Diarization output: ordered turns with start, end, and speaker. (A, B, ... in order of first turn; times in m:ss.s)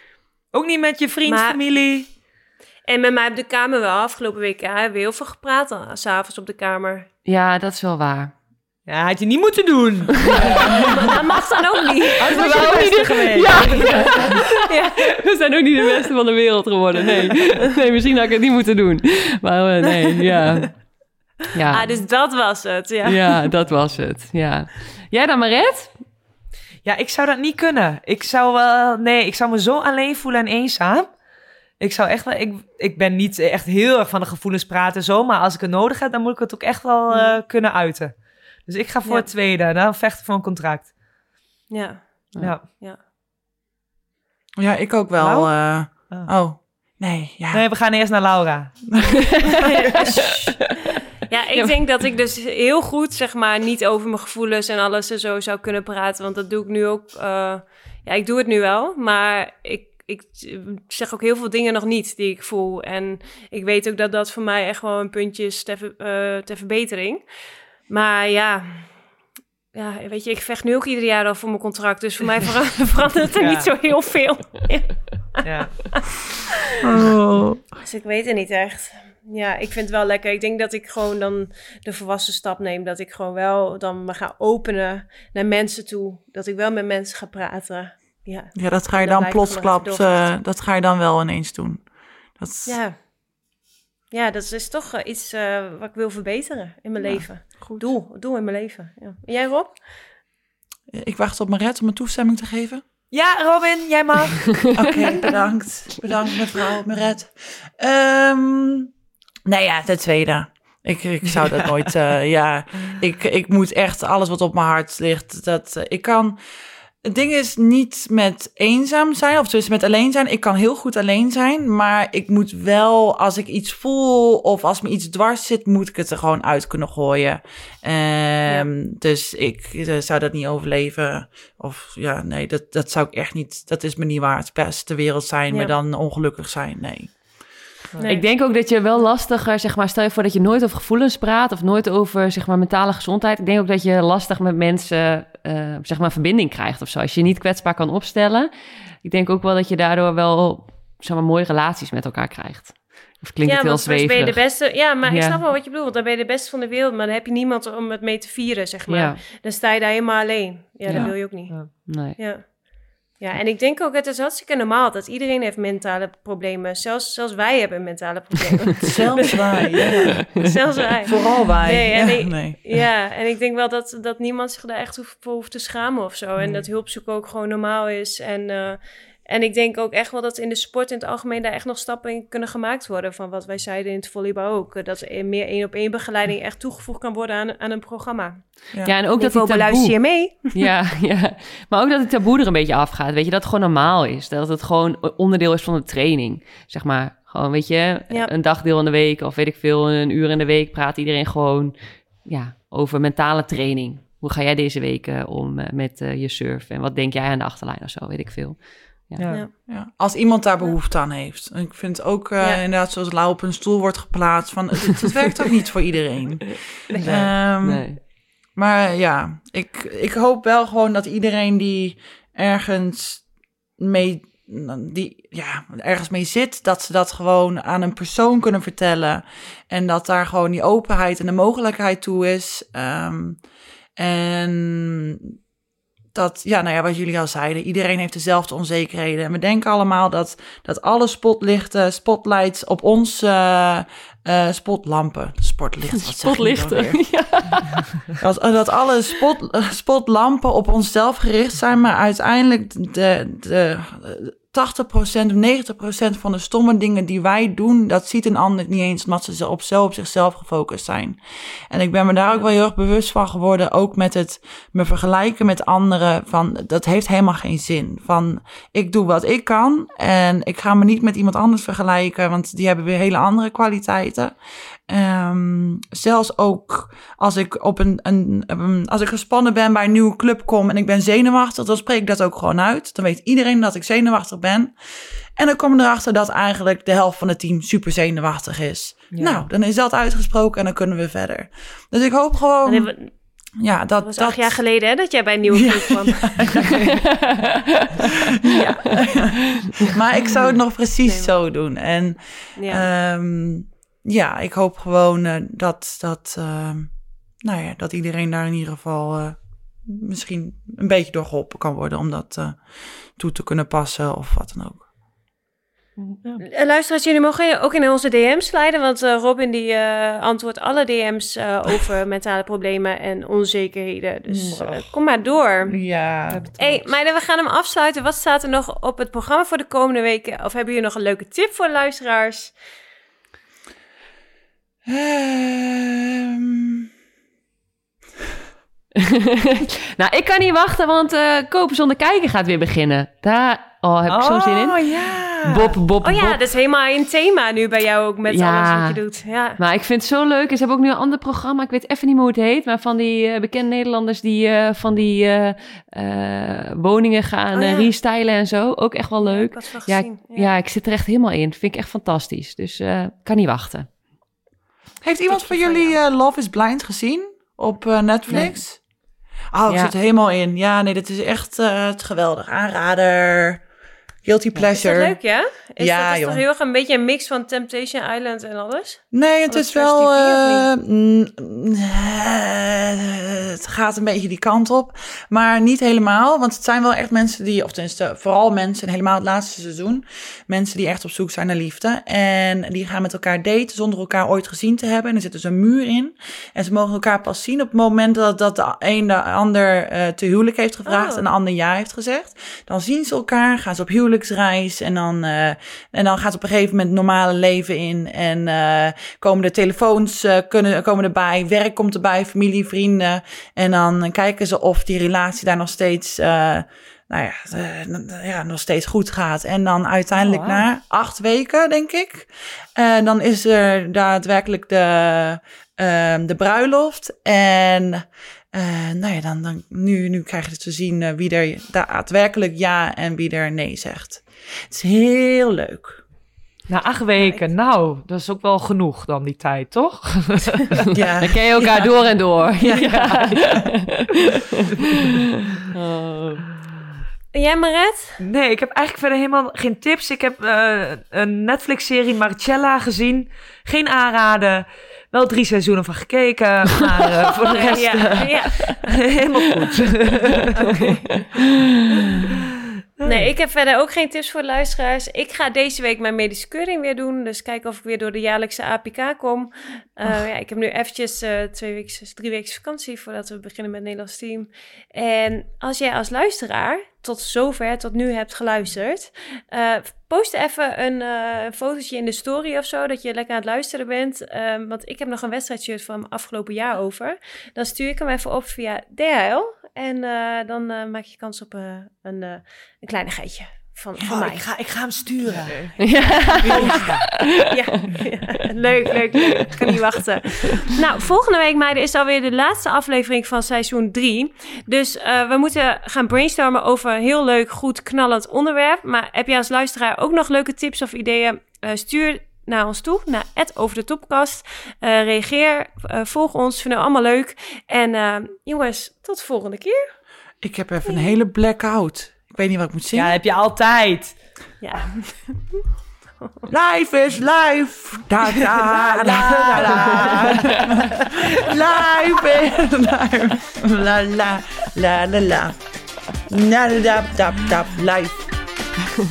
0:00.5-0:02.1 A
0:01.3-0:01.6 B
0:02.9-0:07.1 B
0:07.3-0:08.3 C
0:08.9-0:11.1 A
0:10.2-0:10.6 C
0:10.3-0:15.2 B
0:12.2-0:14.5 A
0:12.2-0:20.9 C
0:20.1-0:20.6 B
0:21.5-0:22.0 C
0:21.7-0:23.5 B
0:23.0-0:25.9 C
0:26.8-0:31.1 A
0:31.8-0:40.9 A
0:37.1-0:37.4 B
0:41.7-0:43.0 B
0:42.4-0:42.6 A
0:44.6-0:47.6 D
0:45.2-0:46.3 A
0:47.5-0:48.8 A
0:48.9-0:49.2 D
0:49.6-0:50.7 B
0:50.0-0:50.6 C
0:51.3-1:07.3 B
1:07.9-1:09.0 B
1:09.7-1:16.4 B
1:13.4-1:13.7 A
1:15.4-1:16.0 A
1:16.8-1:17.2 A
1:16.9-1:17.6 D
1:17.8-1:30.3 B
1:28.6-1:32.8 D
1:32.7-1:33.0 B
1:34.1-1:39.8 B
1:37.0-1:37.8 D
1:40.9-1:42.8 D
1:43.1-1:44.7 A
1:44.8-1:48.9 D
1:49.5-1:56.4 D
1:57.0-2:17.2 D
2:18.0-2:28.5 C
2:29.0-2:35.4 C
2:33.4-3:08.4 B
2:38.9-2:39.2 C
2:40.9-2:41.2 C
2:40.9-2:41.7 A
2:41.7-2:42.2 C
2:48.8-2:50.3 D
2:51.0-2:52.6 D
3:08.8-3:10.0 C
3:09.2-3:10.6 B
3:10.5-3:29.3 C
3:29.2-3:29.5 A
3:29.7-3:43.3 D
3:36.9-3:37.2 B
3:37.0-3:38.0 C
3:43.8-3:53.4 D
3:54.0-3:55.4 D
3:56.1-4:07.0 D
4:06.0-4:08.1 C
4:08.2-4:21.2 D
4:21.7-4:34.4 D
4:34.9-4:44.7 D
4:45.4-4:52.9 D
4:49.1-4:49.5 A
4:52.6-4:53.1 B
4:53.6-4:54.6 D
4:54.0-4:56.5 B
4:55.5-4:57.0 D
4:57.0-4:57.8 C
4:58.3-5:12.6 D
4:58.6-4:59.0 B
5:01.0-5:01.3 B
5:02.6-5:02.9 B
5:13.2-5:14.8 D
5:16.0-5:16.4 A
5:16.5-5:25.8 B
5:24.3-5:25.0 D
5:25.7-5:26.5 D
5:26.3-5:26.9 A
5:26.6-5:32.6 B
5:34.9-5:36.9 D
5:39.0-5:46.4 C
5:44.1-5:45.8 A
5:46.0-5:49.6 B
5:48.3-5:49.0 C
5:49.6-6:03.9 C
5:57.5-5:57.9 B
5:59.2-6:00.5 B
6:05.0-6:08.9 D
6:05.3-6:06.0 B
6:08.3-6:08.5 B
6:09.5-6:13.6 D
6:09.7-6:09.9 C
6:14.2-6:15.2 D
6:14.7-6:20.7 B
6:15.8-6:16.4 D
6:19.1-7:16.0 D
6:40.9-6:41.3 B
7:00.2-7:00.6 A
7:16.7-7:20.8 A
7:17.2-7:17.5 B
7:20.9-7:21.4 D
7:21.2-7:24.6 C
7:22.6-7:23.7 A
7:25.1-7:26.5 C
7:27.3-7:28.2 B
7:28.2-7:41.0 A
7:37.4-7:39.2 B
7:40.6-7:41.3 B
7:41.2-7:41.4 C
7:43.0-7:43.3 A
7:43.0-8:14.5 B
8:14.0-8:15.9 A
8:15.8-8:17.4 C
8:16.2-8:16.9 B
8:16.4-8:17.1 A
8:16.5-8:16.9 D
8:17.4-8:39.8 B
8:40.4-8:43.2 D
8:42.9-8:44.2 A
8:44.6-8:45.6 B
8:46.5-8:55.6 D
8:48.7-8:50.8 A
8:56.3-8:58.3 D